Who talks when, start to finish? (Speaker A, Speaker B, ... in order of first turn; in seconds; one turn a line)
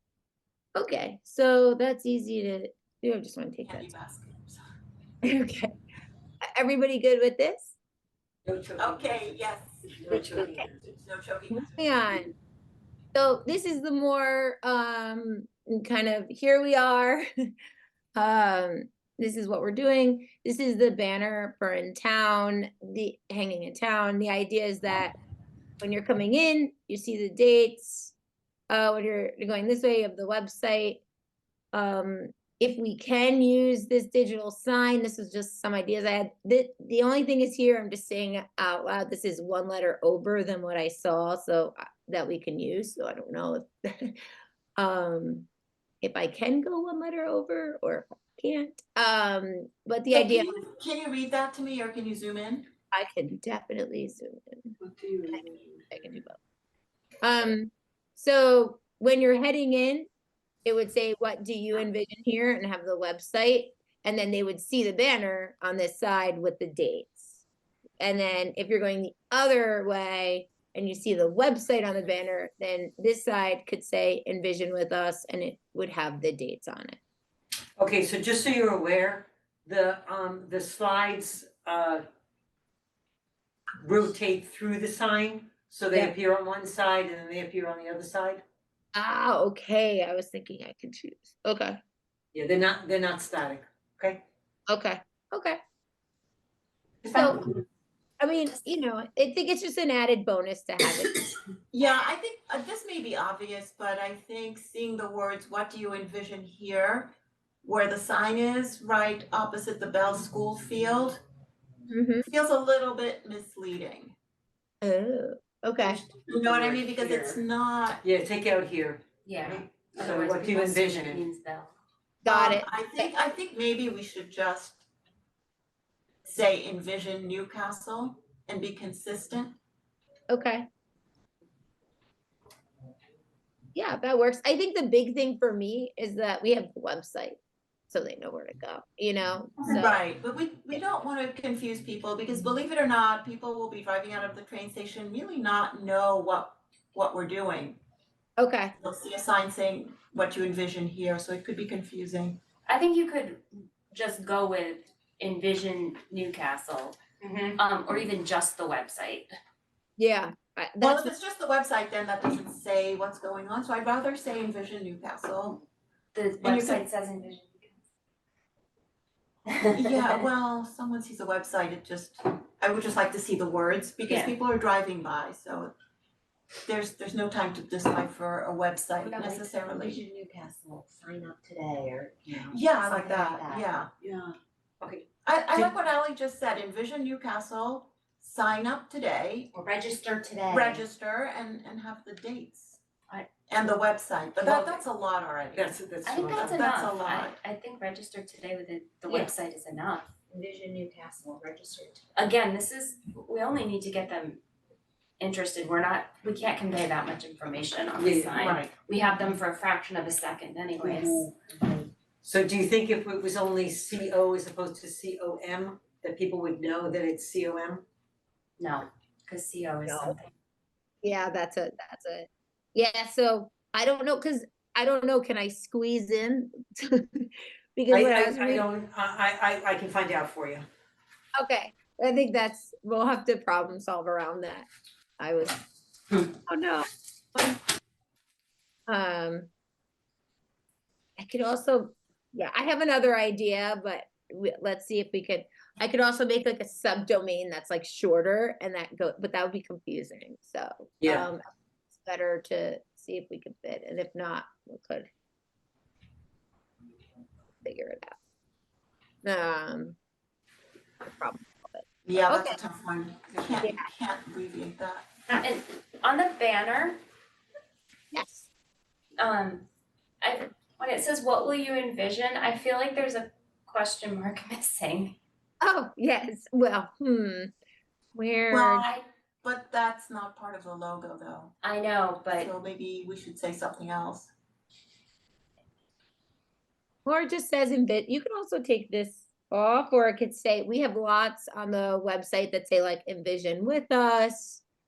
Speaker A: 0.7-3.9
Speaker B: 3.6-4.6
Speaker A: 5.2-5.7
Speaker A: 6.4-7.7
Speaker C: 8.4-9.3
Speaker B: 8.8-12.2
Speaker C: 10.0-10.8
Speaker A: 10.1-10.6
Speaker A: 11.5-12.3
Speaker A: 13.1-17.2
Speaker A: 18.1-25.1
Speaker A: 25.8-28.1
Speaker A: 28.7-31.0
Speaker A: 31.7-44.2
Speaker A: 44.8-45.5
Speaker A: 46.0-50.5
Speaker B: 50.1-52.7
Speaker A: 52.9-54.8
Speaker A: 55.9-56.4
Speaker A: 57.2-60.1
Speaker A: 60.6-67.4
Speaker A: 68.0-77.0
Speaker C: 77.8-82.0
Speaker C: 83.8-88.4
Speaker A: 88.9-91.8
Speaker C: 92.3-94.2
Speaker A: 94.7-95.6
Speaker C: 97.0-97.5
Speaker A: 97.1-97.4
Speaker A: 98.2-101.2
Speaker B: 101.7-107.1
Speaker B: 107.6-111.2
Speaker A: 111.9-112.2
Speaker B: 112.2-114.1
Speaker A: 114.8-116.0
Speaker B: 116.3-118.0
Speaker C: 116.4-117.4
Speaker C: 118.0-121.2
Speaker D: 119.2-121.7
Speaker A: 122.2-123.1
Speaker B: 122.2-124.8
Speaker B: 126.2-129.5
Speaker A: 130.3-130.7
Speaker A: 133.7-137.4
Speaker A: 137.9-140.0
Speaker B: 139.7-147.8
Speaker A: 148.4-148.7
Speaker B: 148.8-152.4
Speaker D: 152.7-159.3
Speaker A: 160.0-161.1
Speaker B: 160.8-165.6
Speaker D: 166.1-167.8
Speaker B: 166.4-166.8
Speaker D: 169.5-170.2
Speaker B: 169.7-175.7
Speaker D: 174.1-174.3
Speaker B: 176.6-180.0
Speaker E: 179.0-184.3
Speaker B: 182.3-183.9
Speaker B: 185.2-189.5
Speaker E: 189.5-190.8
Speaker B: 190.5-192.8
Speaker B: 193.5-195.7
Speaker C: 194.4-194.8
Speaker C: 195.5-196.6
Speaker D: 196.0-200.1
Speaker B: 196.3-197.4
Speaker E: 200.3-202.0
Speaker D: 202.1-204.4
Speaker D: 205.2-211.3
Speaker C: 208.0-208.6
Speaker E: 211.6-211.8
Speaker C: 212.2-217.8
Speaker D: 218.6-220.3
Speaker A: 219.8-220.1
Speaker A: 221.0-228.7
Speaker C: 227.9-230.7
Speaker A: 231.4-234.7
Speaker A: 235.2-235.6
Speaker A: 236.5-237.6
Speaker A: 238.9-239.5
Speaker A: 241.2-255.1
Speaker C: 251.0-251.3
Speaker A: 257.6-258.1
Speaker A: 259.2-259.9
Speaker A: 261.0-262.6
Speaker B: 262.1-265.1
Speaker A: 263.6-263.9
Speaker D: 265.3-267.0
Speaker A: 268.1-268.5
Speaker D: 269.2-269.7
Speaker D: 270.2-275.1
Speaker A: 275.6-277.5
Speaker A: 278.1-278.9
Speaker B: 278.5-281.5
Speaker D: 281.6-282.5
Speaker B: 282.3-284.3
Speaker A: 287.0-294.6